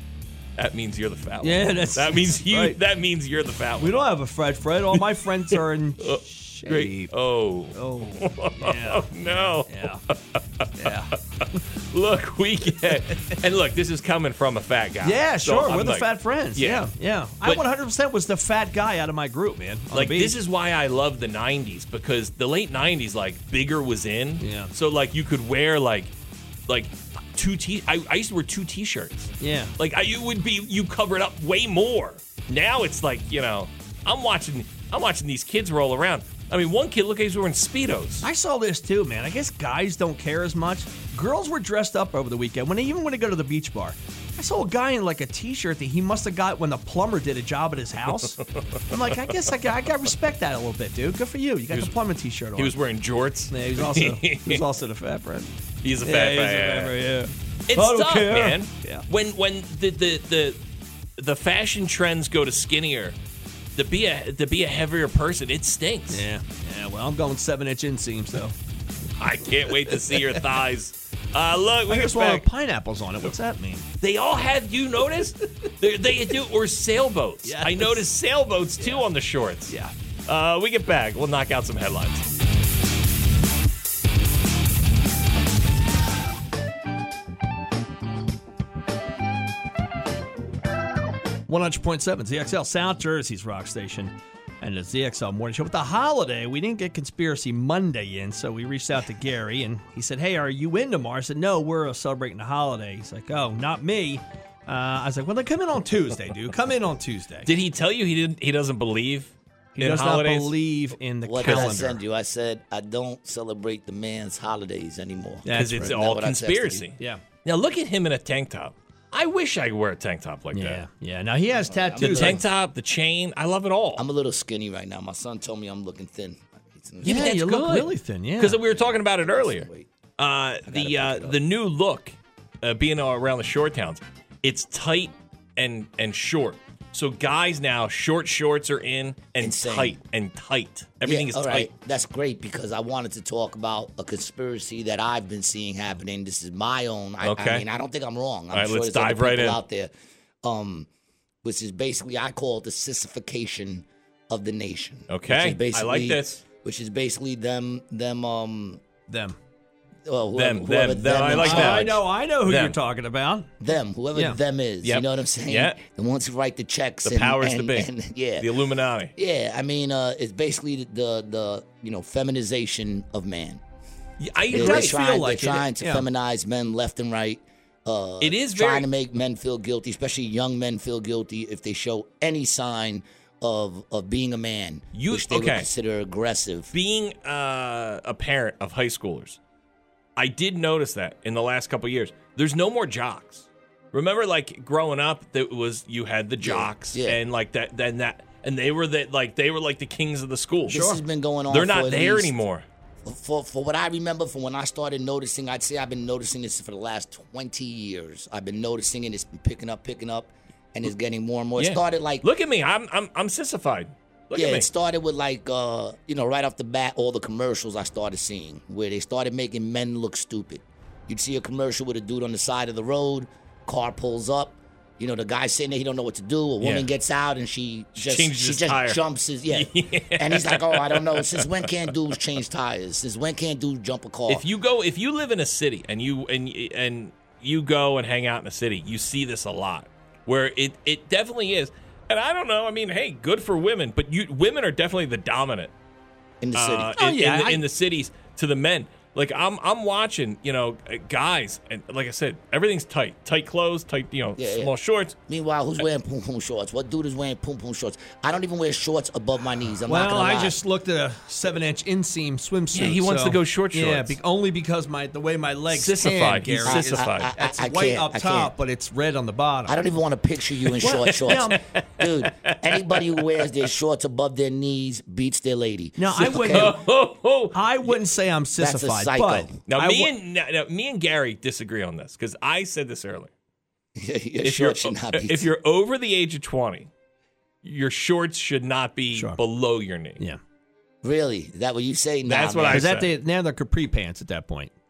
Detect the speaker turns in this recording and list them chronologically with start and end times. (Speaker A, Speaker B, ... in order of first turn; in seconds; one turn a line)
Speaker A: 0.6-4.1
Speaker B: 1.4-2.8
Speaker B: 3.8-7.1
Speaker A: 4.9-16.9
Speaker B: 7.8-9.1
Speaker B: 9.7-10.0
Speaker B: 10.8-11.1
Speaker B: 12.9-13.3
Speaker B: 15.0-20.4
Speaker A: 19.9-26.1
Speaker B: 24.4-24.7
Speaker A: 26.7-38.3
Speaker B: 29.4-29.7
Speaker B: 38.2-52.8
Speaker A: 48.6-49.0
Speaker A: 52.5-54.7
Speaker B: 53.5-59.0
Speaker A: 55.8-56.9
Speaker A: 57.7-60.6
Speaker A: 61.2-63.2
Speaker A: 63.8-66.2
Speaker B: 66.1-68.6
Speaker A: 69.2-72.5
Speaker B: 69.9-70.4
Speaker B: 71.9-73.9
Speaker A: 74.0-79.8
Speaker B: 77.4-78.1
Speaker B: 78.8-79.1
Speaker B: 79.7-79.9
Speaker A: 80.3-82.3
Speaker B: 91.5-107.5
Speaker A: 107.5-110.6
Speaker B: 109.8-112.0
Speaker C: 111.2-116.9
Speaker A: 111.4-111.7
Speaker B: 115.5-116.0
Speaker A: 115.5-120.8
Speaker B: 120.5-122.4
Speaker C: 121.5-122.4
Speaker A: 122.0-124.1
Speaker C: 124.0-127.3
Speaker B: 127.0-128.6
Speaker A: 127.0-141.7
Speaker C: 128.6-129.9
Speaker C: 130.7-131.4
Speaker C: 139.4-140.0
Speaker C: 141.0-149.9
Speaker A: 147.2-147.7
Speaker A: 148.5-149.6
Speaker C: 150.4-150.9
Speaker C: 151.4-158.8
Speaker A: 155.1-156.4
Speaker B: 159.1-159.4
Speaker C: 160.1-161.9
Speaker A: 160.3-162.8
Speaker B: 161.4-163.5
Speaker C: 163.6-168.5
Speaker B: 164.1-164.4
Speaker A: 164.8-165.8
Speaker A: 167.0-169.1
Speaker C: 169.2-173.6
Speaker A: 174.2-175.1
Speaker B: 174.5-176.1
Speaker C: 174.5-186.7
Speaker A: 178.2-178.9
Speaker A: 184.9-185.7
Speaker A: 186.7-189.4
Speaker A: 190.2-200.9
Speaker C: 196.4-197.2
Speaker C: 200.7-202.4
Speaker B: 200.7-201.0
Speaker A: 201.5-202.7
Speaker C: 203.1-212.3
Speaker A: 211.6-214.7
Speaker C: 214.3-234.5
Speaker A: 226.6-226.9
Speaker A: 227.9-231.7
Speaker A: 234.3-245.7
Speaker C: 246.4-246.9
Speaker A: 246.5-255.2
Speaker B: 246.9-247.6
Speaker C: 254.4-254.7
Speaker C: 255.3-260.6
Speaker B: 259.9-269.8
Speaker A: 262.7-264.2
Speaker A: 265.7-267.4
Speaker C: 266.6-268.5
Speaker C: 269.7-276.8
Speaker A: 270.7-273.5
Speaker B: 270.8-271.6
Speaker B: 276.0-276.8
Speaker A: 276.3-278.0
Speaker B: 277.5-280.1
Speaker C: 278.5-279.6
Speaker A: 279.7-283.3
Speaker C: 284.0-285.5
Speaker A: 284.4-286.9
Speaker A: 287.6-290.2
Speaker B: 289.1-289.4
Speaker C: 291.0-292.9
Speaker A: 292.2-293.1
Speaker B: 292.7-294.7